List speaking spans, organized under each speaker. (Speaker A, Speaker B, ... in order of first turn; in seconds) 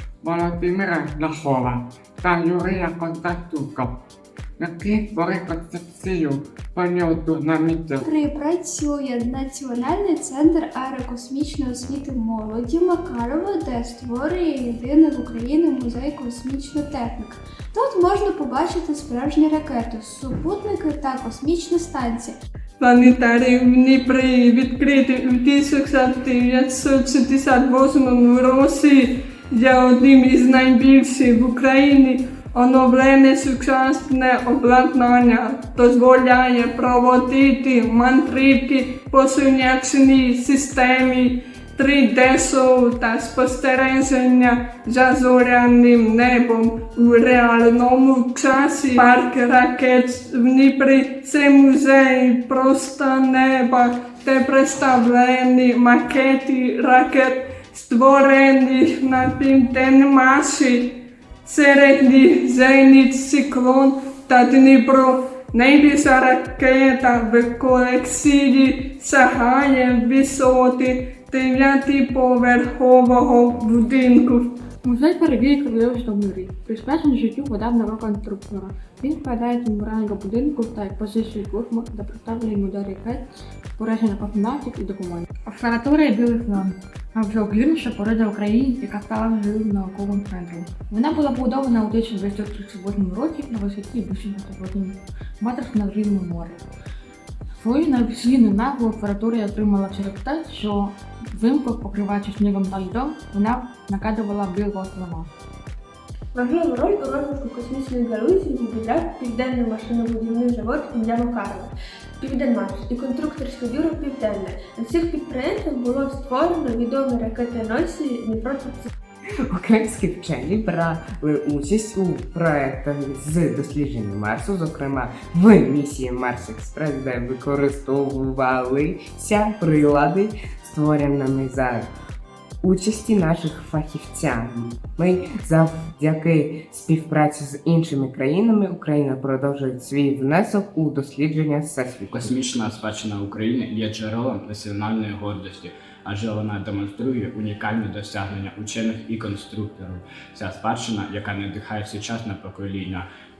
Speaker A: 0.2-3.9, 4.6-8.0
Speaker B: 8.0-22.3
Speaker C: 22.8-60.9, 61.4-74.5
Speaker D: 74.8-83.2, 83.8-96.6, 97.6-105.3
Speaker E: 106.3-118.9
Speaker F: 119.4-131.9, 132.6-142.4
Speaker G: 142.1-153.1